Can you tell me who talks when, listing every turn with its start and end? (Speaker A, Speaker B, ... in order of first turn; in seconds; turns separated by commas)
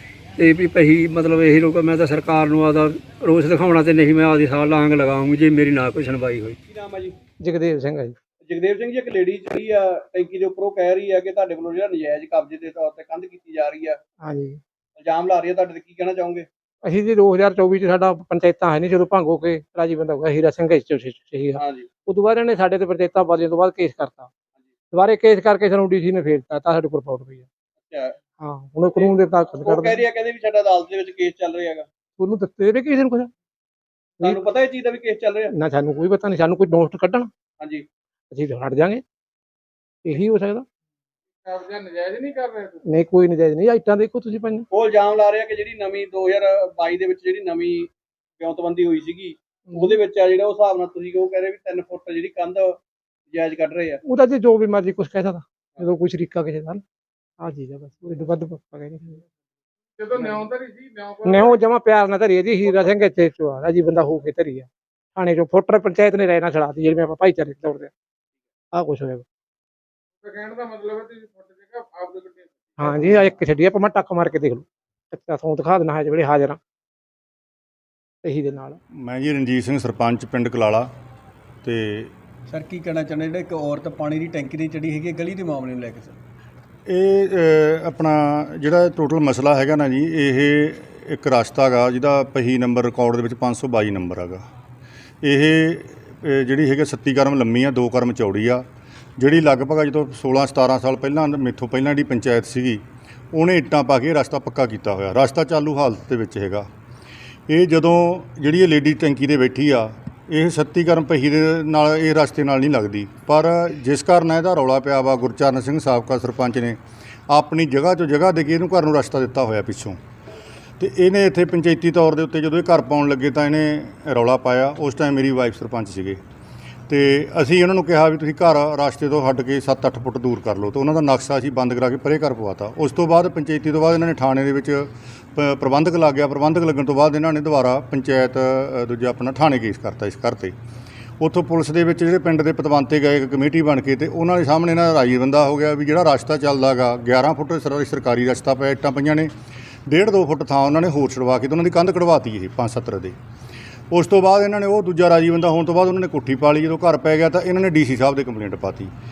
Speaker A: 0.4-6.6, Speaker B: 6.7-7.2, Speaker C: 7.6-8.1, Speaker B: 8.5-14.0, Speaker B: 15.0-16.5, Speaker C: 16.9-21.6, Speaker B: 21.6-21.9, Speaker C: 22.1-24.3, Speaker C: 24.9-27.4, Speaker B: 27.9-28.1, Speaker C: 28.5-30.0, Speaker B: 29.0-31.9, Speaker C: 32.2-33.3, Speaker B: 34.2-35.5, Speaker C: 35.6-37.2, Speaker B: 37.6-37.9, Speaker C: 38.3-39.0, Speaker C: 40.1-40.6, Speaker D: 41.5-42.4, Speaker C: 42.4-44.6, Speaker B: 44.7-52.8, Speaker B: 53.3-54.0, Speaker C: 54.1-56.8, Speaker C: 57.5-59.2, Speaker D: 60.3-61.5, Speaker C: 61.2-64.7, Speaker C: 65.2-67.9, Speaker C: 68.8-69.2, Speaker D: 70.3-72.4, Speaker C: 72.8-76.6, Speaker C: 78.2-78.8, Speaker E: 79.0-80.9, Speaker E: 81.7-82.1, Speaker F: 82.5-86.1, Speaker E: 86.9-94.4, Speaker E: 95.2-98.6, Speaker E: 99.2-102.8, Speaker E: 103.3-106.7, Speaker E: 107.5-116.8, Speaker E: 117.3-120.0, Speaker E: 120.8-126.2, Speaker E: 126.9-140.5, Speaker E: 141.2-149.3, Speaker E: 149.9-153.2, Speaker E: 153.9-158.9